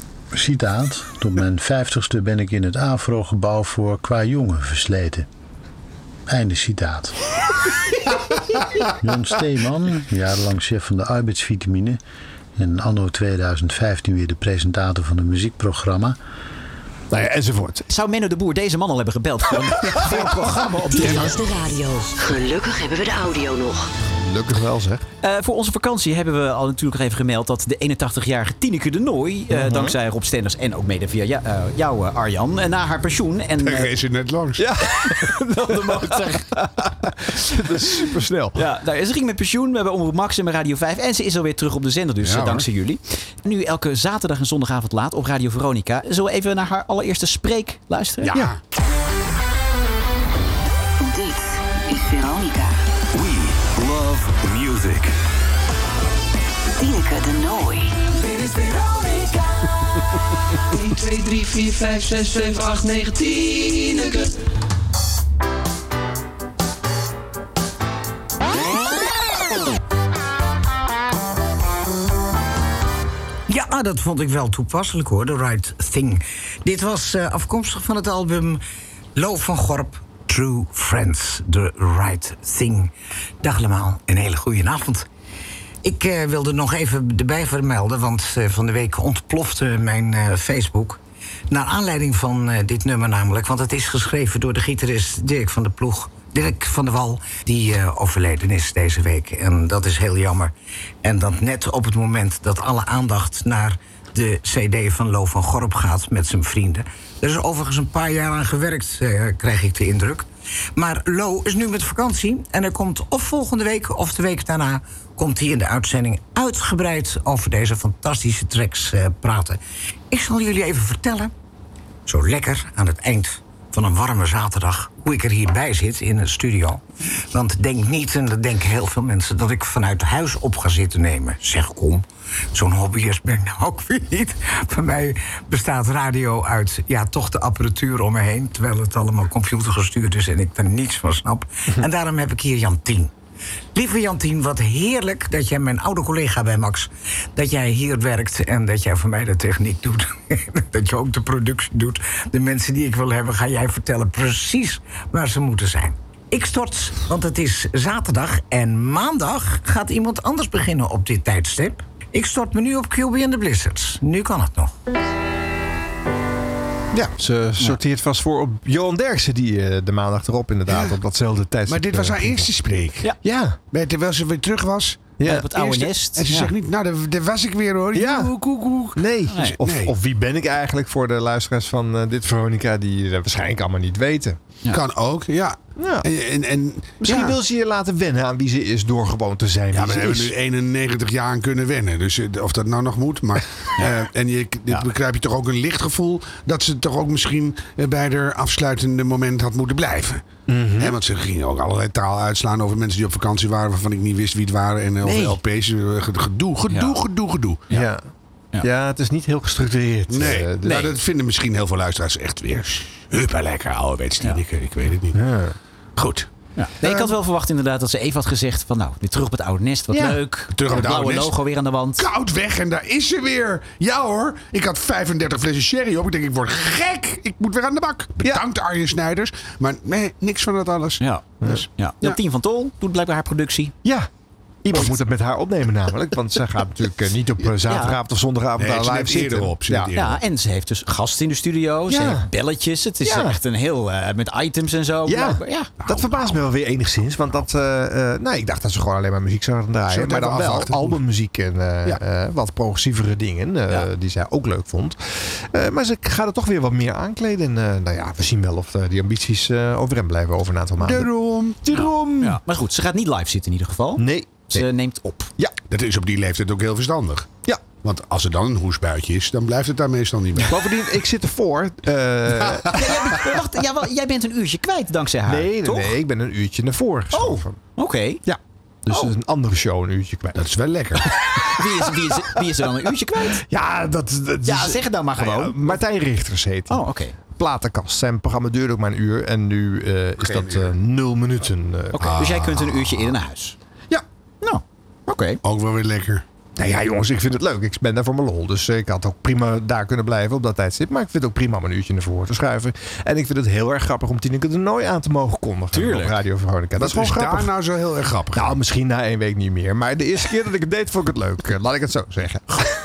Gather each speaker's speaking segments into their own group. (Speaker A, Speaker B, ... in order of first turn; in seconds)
Speaker A: 0.3-5.3, 6.3-7.2, 9.0-12.0, 12.6-16.2
Speaker B: 17.1-17.8, 24.1-25.1, 29.5-29.9, 34.6-36.5, 37.3-38.6, 166.9-172.5, 173.2-173.6, 175.2-175.5, 177.9-178.3, 178.9-184.4, 185.8-186.1, 187.0-190.3, 200.5-200.9, 207.7-208.0, 208.6-210.9, 215.1-215.5, 216.8-217.1, 219.9-220.2, 233.8-234.1, 234.6-239.9, 241.9-242.3, 243.0-243.3, 245.1-255.0, 255.5-261.1, 261.6-262.4, 264.0-264.6, 270.5-272.9, 275.2-277.6, 278.2-280.4, 283.4-286.8, 287.3-292.0, 296.6-307.5, 308.3-312.7
Speaker C: 17.9-21.4, 25.2-33.9, 35.0-36.7, 38.5-48.4, 175.2-176.5, 179.3-179.6, 205.1-205.3, 206.7-207.0, 210.6-210.9, 216.6-222.0, 231.0-233.7, 237.6-238.0, 239.9-245.7, 261.7-265.3, 272.7-275.9, 277.1-278.2, 281.5-283.4, 284.4-285.8, 286.7-287.1, 291.9-293.6, 294.4-295.4, 305.7-306.1
Speaker D: 20.9-23.9, 51.0-52.8, 56.8-58.0
Speaker E: 33.6-34.6, 42.2-42.7, 48.2-48.6, 170.7-170.9, 171.7-173.1, 173.7-179.0, 179.6-179.9, 184.7-187.3, 189.7-200.2, 200.8-207.7, 210.1-215.2, 216.0-216.3, 220.5-221.3, 222.0-232.1, 238.6-240.2, 245.8-246.4, 249.9-251.0, 260.8-261.6, 265.7-270.5, 280.3-281.0, 290.2-290.7, 292.0-293.1, 295.4-296.2, 306.8-308.6
Speaker F: 53.1-55.1
Speaker G: 58.3-59.4, 60.7-64.3
Speaker H: 73.5-78.6, 79.1-85.1, 85.8-100.5, 101.0-121.3, 122.0-143.1, 143.7-164.7